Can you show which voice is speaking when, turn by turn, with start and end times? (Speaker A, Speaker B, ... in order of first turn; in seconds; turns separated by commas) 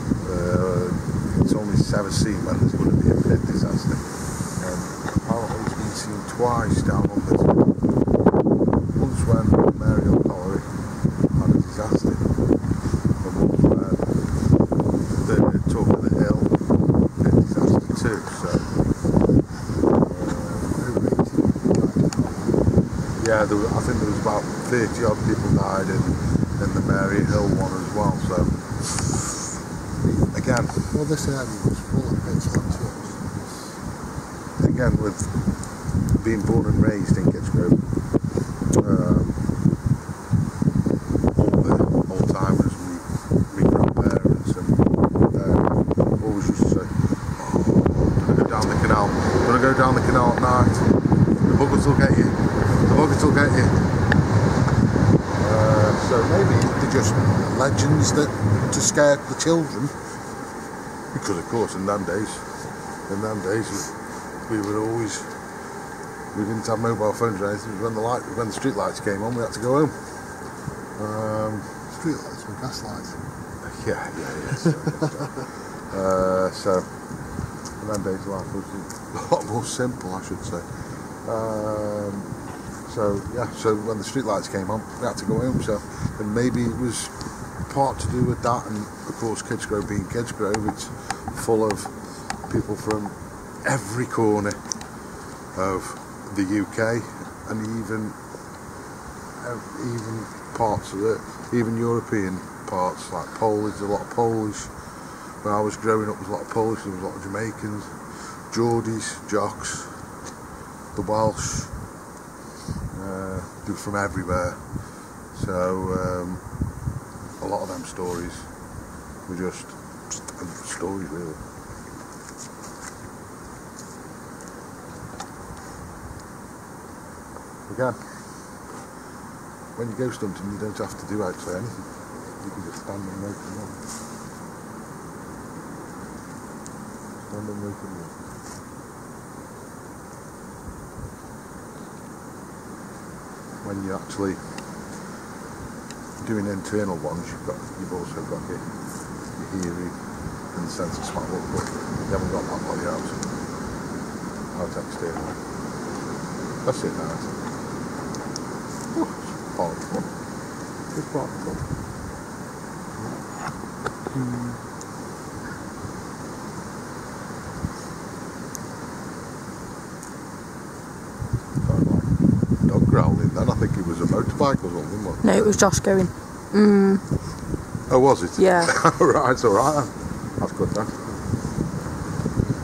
Speaker A: 0.2-7.6, Speaker A: 8.9-10.8, Speaker A: 11.3-12.3, Speaker A: 13.2-14.3, Speaker A: 15.1-16.6, Speaker A: 17.2-18.8, Speaker A: 20.0-20.8, Speaker B: 20.7-22.8, Speaker A: 23.2-29.4, Speaker A: 30.1-30.9, Speaker B: 30.9-33.7, Speaker A: 34.6-37.8, Speaker A: 38.7-39.4, Speaker A: 41.3-44.8, Speaker A: 45.3-50.9, Speaker A: 51.4-53.8, Speaker A: 55.3-60.0, Speaker A: 61.1-62.5, Speaker A: 63.1-65.4, Speaker A: 66.3-70.1, Speaker A: 71.0-71.8, Speaker B: 71.9-73.2, Speaker A: 73.6-76.9, Speaker A: 77.7-82.3, Speaker A: 82.8-94.6, Speaker A: 95.5-98.2, Speaker A: 99.4-104.7, Speaker A: 105.4-110.0, Speaker A: 110.9-111.7, Speaker A: 112.9-116.4, Speaker A: 117.4-118.5, Speaker A: 119.2-121.4, Speaker A: 127.7-128.0, Speaker A: 129.8-133.8, Speaker A: 137.3-138.2, Speaker A: 143.6-144.4, Speaker A: 146.2-148.6, Speaker A: 149.3-149.9, Speaker A: 150.5-153.2, Speaker A: 154.5-155.4, Speaker A: 156.6-157.3, Speaker A: 158.9-160.1, Speaker A: 160.9-161.6, Speaker B: 164.1-164.5, Speaker A: 171.6-172.1, Speaker A: 172.6-175.4, Speaker C: 175.2-177.0, Speaker A: 177.9-181.0, Speaker C: 178.4-178.7